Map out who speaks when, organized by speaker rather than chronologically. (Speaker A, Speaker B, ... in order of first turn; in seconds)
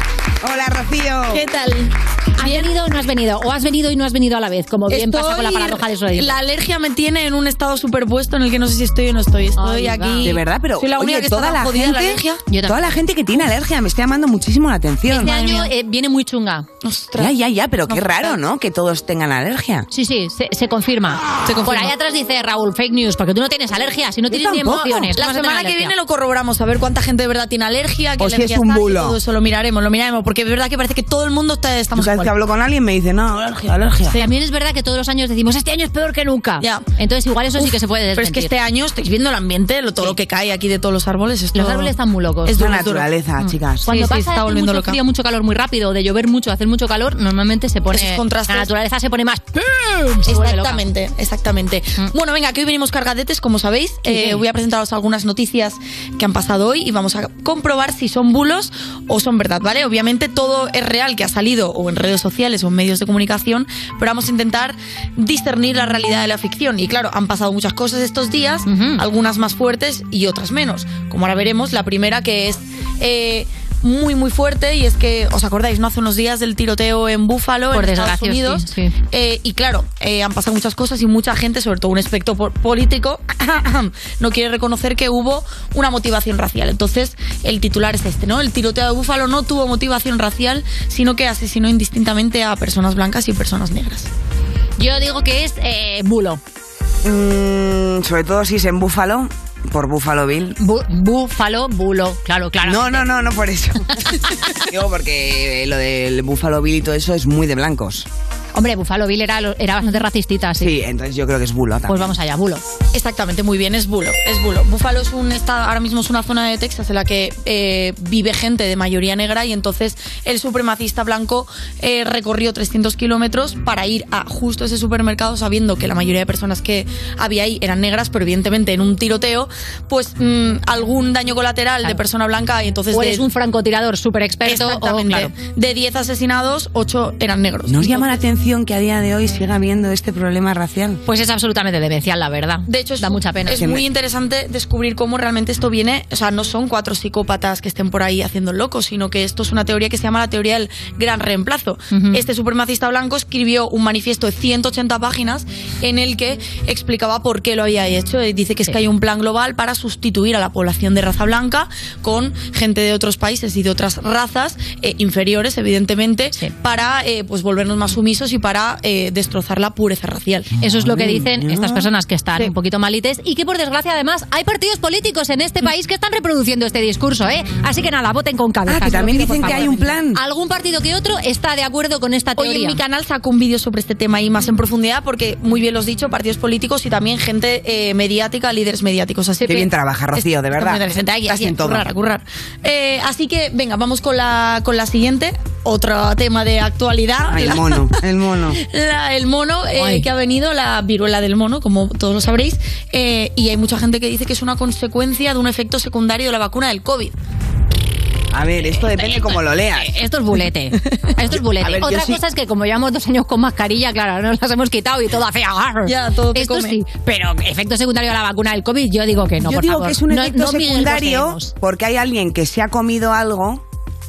Speaker A: 0.4-1.4, 10.2-15.4, 17.2-19.9, 24.3-25.1, 28.2-29.2, 31.9-34.2, 42.5-43.9, 97.0-100.6, 102.6-108.1, 110.6-112.2, 137.7-141.0, 143.5-143.8, 170.7-171.9, 178.7-180.2, 189.4-191.9, 197.3-198.6, 208.3-209.9, 211.3-212.2, 219.4-223.6
Speaker B: 1.3-2.7, 4.9-12.4, 15.3-15.7, 16.8-17.4, 17.9-18.4, 21.5-21.9, 25.1-32.3, 36.6-36.9, 37.6-41.9, 42.5-43.1, 43.9-45.0, 47.9-48.7, 50.2-94.1, 112.9-133.2, 134.4-138.2, 142.7-170.5, 179.1-179.8, 182.4-197.9, 198.6-207.1, 215.8-216.8
Speaker C: 2.4-6.3, 9.6-10.3, 12.5-12.8, 15.1-16.7, 19.9-25.9, 34.1-38.5, 41.5-42.8, 43.8-50.8, 54.0-54.4, 68.7-69.0, 77.7-78.9, 94.8-96.4, 100.6-103.1, 108.5-110.7, 111.9-112.6, 132.9-135.3, 141.1-143.6, 151.9-152.2, 170.6-182.8, 199.8-200.1, 209.0-221.5